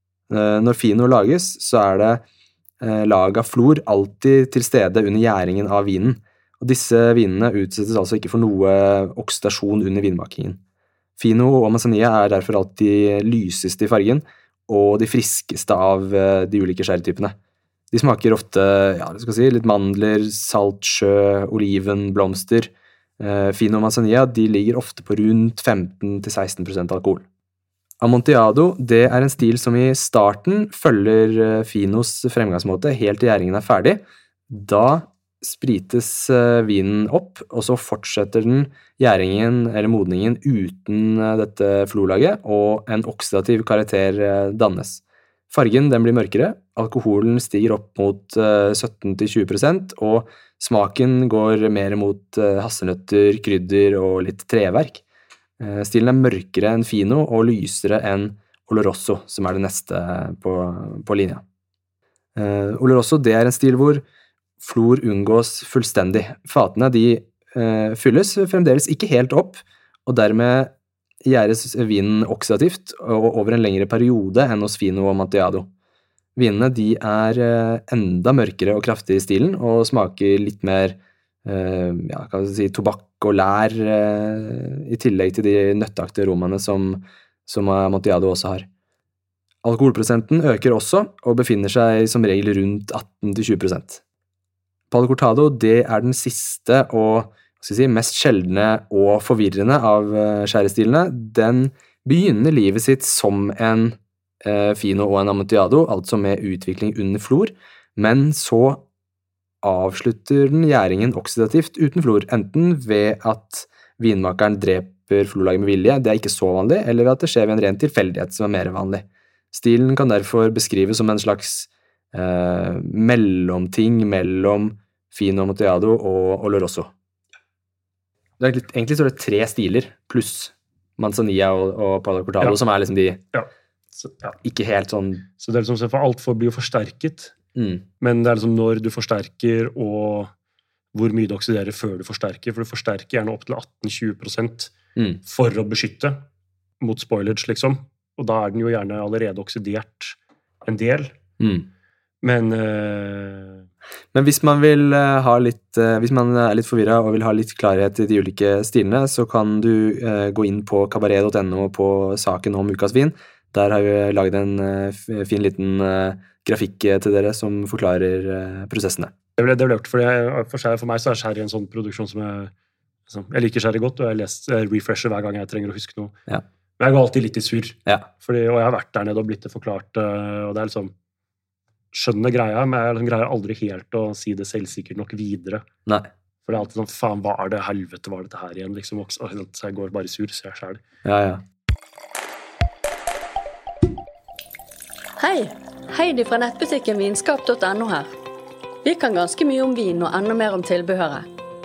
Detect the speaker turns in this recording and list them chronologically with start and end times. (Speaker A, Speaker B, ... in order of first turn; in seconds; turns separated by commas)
Speaker A: 0.3-2.2, Speaker A: 2.8-10.6, Speaker A: 11.2-17.3, Speaker A: 17.9-27.2, Speaker A: 28.0-55.0, Speaker A: 55.6-61.4, Speaker A: 62.3-64.0, Speaker A: 64.6-70.7, Speaker A: 71.2-75.7, Speaker A: 76.3-88.7, Speaker A: 89.6-94.0, Speaker A: 94.9-108.8, Speaker A: 109.6-126.9, Speaker A: 128.4-133.2, Speaker B: 133.3-134.3, Speaker A: 134.4-135.2, Speaker B: 135.4-137.3, Speaker A: 137.5-137.8, Speaker B: 138.0-140.3, Speaker B: 140.9-144.7, Speaker B: 145.2-146.2, Speaker B: 146.8-151.1, Speaker A: 151.4-151.7, Speaker B: 152.2-153.6, Speaker A: 154.1-169.1, Speaker B: 169.4-172.5, Speaker B: 173.1-176.1, Speaker B: 176.8-180.9, Speaker B: 181.9-185.7, Speaker B: 186.4-190.8, Speaker A: 191.0-191.4, Speaker C: 195.2-198.1, Speaker C: 198.8-201.3